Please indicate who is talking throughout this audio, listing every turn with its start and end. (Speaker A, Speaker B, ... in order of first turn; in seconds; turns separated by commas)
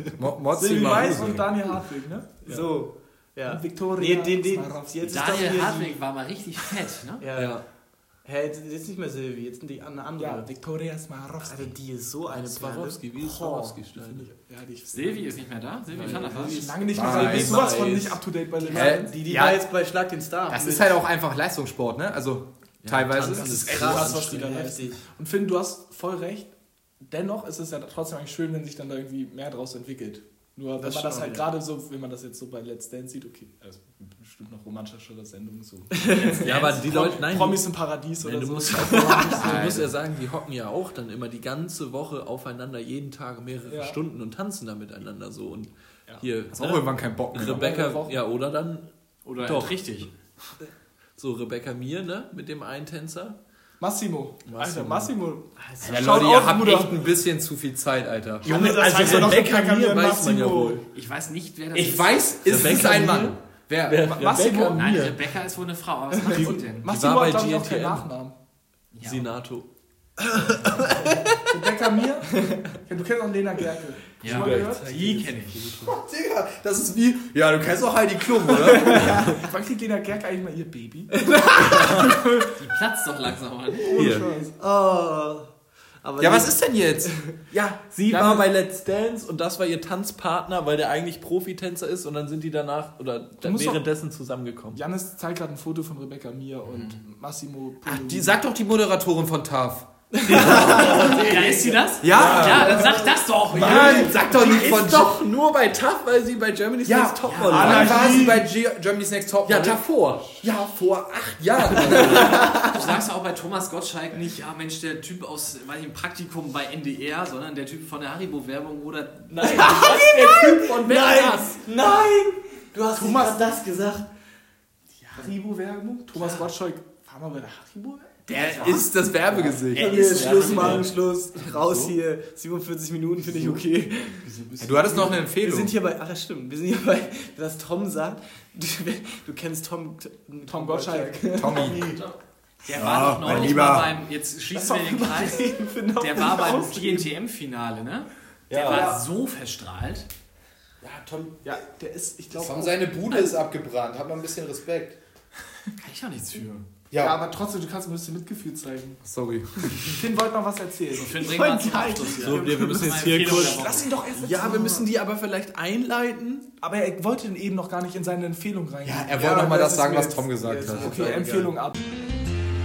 Speaker A: 0.2-1.4, Speaker B: 0.5-2.4, Speaker C: 0.8-1.4, Speaker C: 2.4-6.0, Speaker B: 3.5-5.3, Speaker D: 5.1-7.2, Speaker C: 7.2-10.5, Speaker E: 7.3-7.7, Speaker B: 10.2-11.7, Speaker C: 11.4-13.8, Speaker E: 12.3-14.3, Speaker B: 13.9-19.1, Speaker D: 14.9-16.8, Speaker E: 15.9-18.2, Speaker A: 16.9-17.8, Speaker C: 18.6-21.0, Speaker A: 18.7-19.6, Speaker A: 20.5-24.0, Speaker E: 22.8-24.4, Speaker B: 23.4-39.9, Speaker C: 23.7-25.0, Speaker C: 30.8-31.5, Speaker D: 36.2-36.8, Speaker E: 36.4-53.4, Speaker A: 39.4-39.9, Speaker B: 43.7-44.0, Speaker A: 46.5-47.6, Speaker B: 47.4-48.2, Speaker D: 49.2-50.1, Speaker B: 53.8-57.0, Speaker E: 54.4-55.1, Speaker C: 55.5-56.5, Speaker A: 55.8-58.5, Speaker C: 58.4-59.4, Speaker B: 58.5-60.8, Speaker E: 58.5-60.8, Speaker D: 60.9-62.2, Speaker A: 61.7-64.1, Speaker E: 62.5-65.2, Speaker B: 64.1-65.1, Speaker D: 64.7-66.9, Speaker B: 66.2-68.3, Speaker E: 66.4-68.0, Speaker D: 68.9-69.2, Speaker E: 69.0-69.7, Speaker E: 70.4-71.1, Speaker B: 71.5-74.9, Speaker D: 74.2-75.6, Speaker E: 74.2-76.0, Speaker A: 75.9-79.2, Speaker B: 78.8-82.6, Speaker C: 81.3-81.8, Speaker E: 81.7-82.0, Speaker D: 82.6-83.9, Speaker B: 83.8-84.6, Speaker E: 83.9-84.3, Speaker C: 84.5-87.1, Speaker A: 86.2-87.3, Speaker E: 87.5-94.8, Speaker B: 88.1-88.5, Speaker B: 93.4-93.9, Speaker B: 94.7-98.3, Speaker D: 96.7-97.0, Speaker A: 97.8-99.9, Speaker E: 100.3-102.9, Speaker C: 100.3-101.1, Speaker B: 100.3-101.6, Speaker D: 100.8-104.2, Speaker A: 102.0-102.9, Speaker B: 102.1-103.0, Speaker E: 103.5-108.3, Speaker A: 103.5-105.2, Speaker A: 106.8-112.5, Speaker D: 107.2-107.9, Speaker B: 107.4-108.5, Speaker E: 109.5-110.4, Speaker E: 111.9-112.3, Speaker D: 112.5-120.1, Speaker B: 119.3-121.5, Speaker C: 119.4-124.0, Speaker D: 120.7-121.6, Speaker B: 123.0-123.4, Speaker B: 125.1-128.2, Speaker D: 126.1-126.4, Speaker C: 128.3-128.9, Speaker D: 128.3-128.8, Speaker A: 128.5-130.0, Speaker E: 129.3-131.9, Speaker C: 129.7-134.3, Speaker D: 129.9-130.5, Speaker E: 133.3-133.6, Speaker E: 134.4-135.0, Speaker A: 134.6-135.7, Speaker B: 134.9-135.2, Speaker C: 135.2-142.0, Speaker B: 140.5-141.8, Speaker A: 141.3-141.8, Speaker D: 142.6-150.1, Speaker A: 142.7-143.9, Speaker B: 144.5-147.1, Speaker E: 148.5-148.9, Speaker B: 148.6-149.0, Speaker E: 150.8-151.4, Speaker B: 151.4-153.4, Speaker A: 152.3-155.0, Speaker D: 155.8-156.6, Speaker A: 156.9-157.2, Speaker B: 156.9-159.0, Speaker A: 159.0-159.9, Speaker B: 159.6-161.7, Speaker D: 161.0-164.0, Speaker C: 161.2-163.4, Speaker E: 162.2-166.5, Speaker B: 163.3-164.9, Speaker B: 166.6-171.9, Speaker A: 168.8-170.9, Speaker C: 170.4-171.5